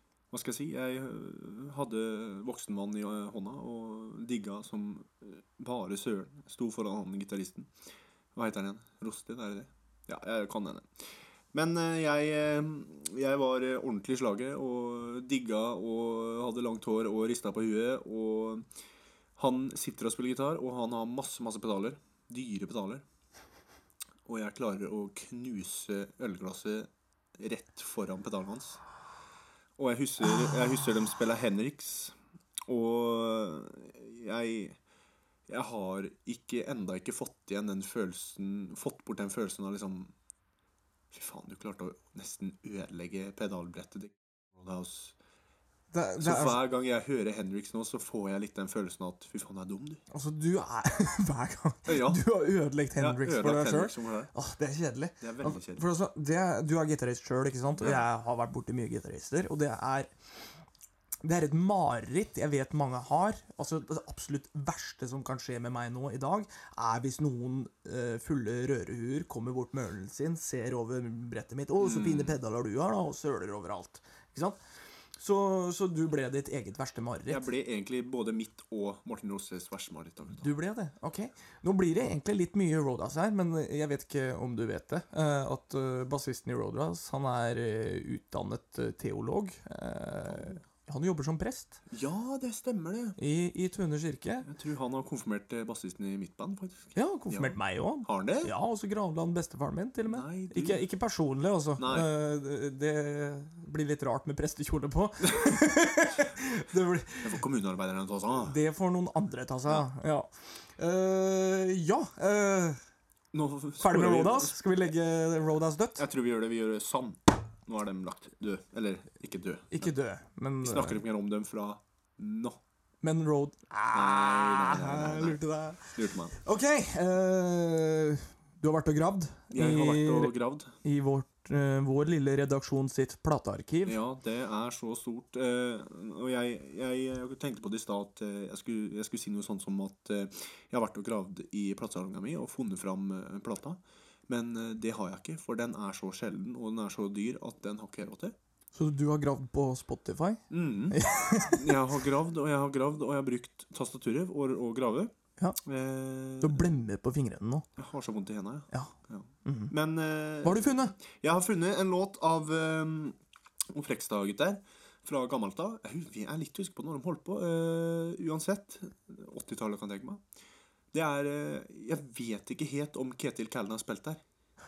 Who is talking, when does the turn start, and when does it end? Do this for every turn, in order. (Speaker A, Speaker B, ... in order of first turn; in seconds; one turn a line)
Speaker A: 0.3-7.7
Speaker A: 8.3-10.9
Speaker A: 11.5-18.7
Speaker A: 19.4-23.0
Speaker A: 24.2-28.8
Speaker A: 29.8-34.8
Speaker A: 35.5-40.1
Speaker A: 41.1-45.1
Speaker B: 45.9-46.6
Speaker A: 46.2-50.0
Speaker B: 50.1-60.1
Speaker A: 51.9-52.2
Speaker A: 53.0-54.3
Speaker A: 55.2-55.8
Speaker B: 61.2-74.6
Speaker A: 71.8-72.4
Speaker B: 75.2-77.4
Speaker A: 77.3-80.5
Speaker B: 80.4-91.8
Speaker A: 91.9-93.2
Speaker B: 93.2-94.5
Speaker A: 94.5-98.5
Speaker B: 96.9-107.4
Speaker A: 100.1-100.8
Speaker A: 101.8-102.1
Speaker A: 107.2-108.6
Speaker B: 108.4-112.8
Speaker A: 113.3-114.6
Speaker B: 113.8-116.0
Speaker A: 116.0-119.9
Speaker B: 119.7-121.0
Speaker A: 120.6-122.6
Speaker B: 123.0-134.0
Speaker A: 123.9-126.3
Speaker A: 129.5-130.7
Speaker A: 133.8-148.3
Speaker B: 148.7-151.7
Speaker A: 150.5-155.1
Speaker A: 155.6-156.6
Speaker B: 156.4-157.7
Speaker A: 157.8-163.2
Speaker B: 159.4-159.7
Speaker B: 160.4-160.9
Speaker A: 163.7-170.2
Speaker A: 170.9-174.2